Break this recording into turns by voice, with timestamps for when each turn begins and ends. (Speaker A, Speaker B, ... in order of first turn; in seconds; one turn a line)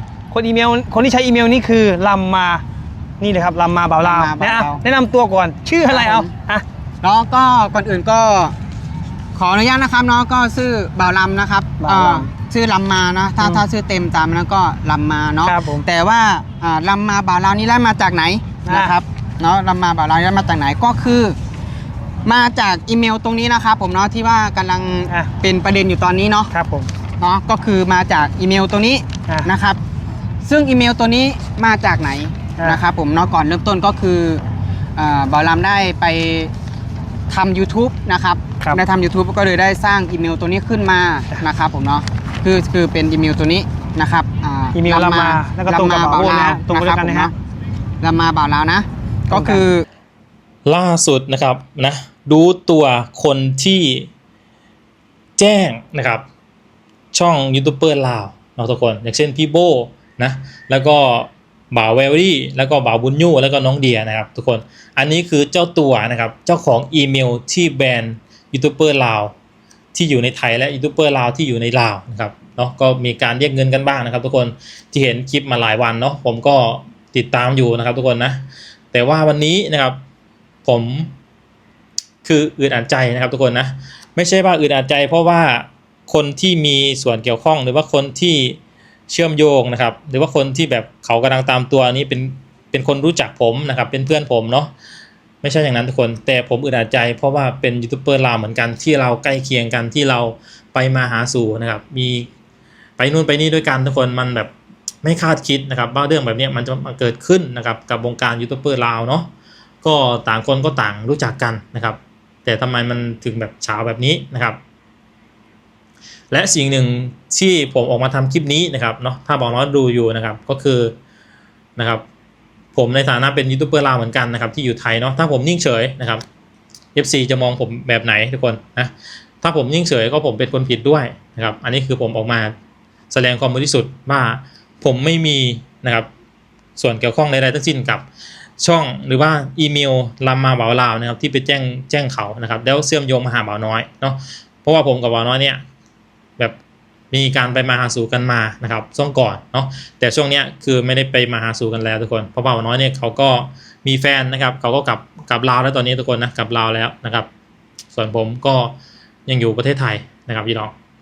Speaker A: 0.3-2.6
Speaker A: 3.2-6.7
Speaker B: 4.0-4.8
Speaker B: 5.9-6.3
Speaker B: 7.0-8.5
Speaker B: 9.3-21.4
Speaker A: 11.8-12.3
Speaker A: 15.4-15.8
Speaker A: 18.7-19.0
Speaker B: 22.2-26.5
Speaker A: 26.5-26.9
Speaker B: 27.2-29.8
Speaker B: 30.4-34.4
Speaker B: 35.0-36.5
Speaker B: 37.3-47.3
Speaker A: 44.7-47.3
Speaker B: 48.0-49.9
Speaker A: 49.3-49.6
Speaker C: 50.6-54.1
Speaker C: 55.4-56.2
Speaker C: 57.1-69.3
Speaker C: 69.9-80.0
Speaker C: 80.7-81.1
Speaker C: 82.2-88.6
Speaker C: 89.1-94.7
Speaker C: 95.4-102.3
Speaker C: 103.0-104.5
Speaker C: 105.0-109.3
Speaker C: 109.8-114.6
Speaker C: 116.3-121.0
Speaker C: 121.8-122.0
Speaker C: 122.8-126.2
Speaker C: 127.0-132.5
Speaker C: 133.1-136.1
Speaker C: 136.8-138.1
Speaker C: 138.6-145.6
Speaker C: 147.1-157.3
Speaker C: 157.9-158.8
Speaker C: 159.3-160.7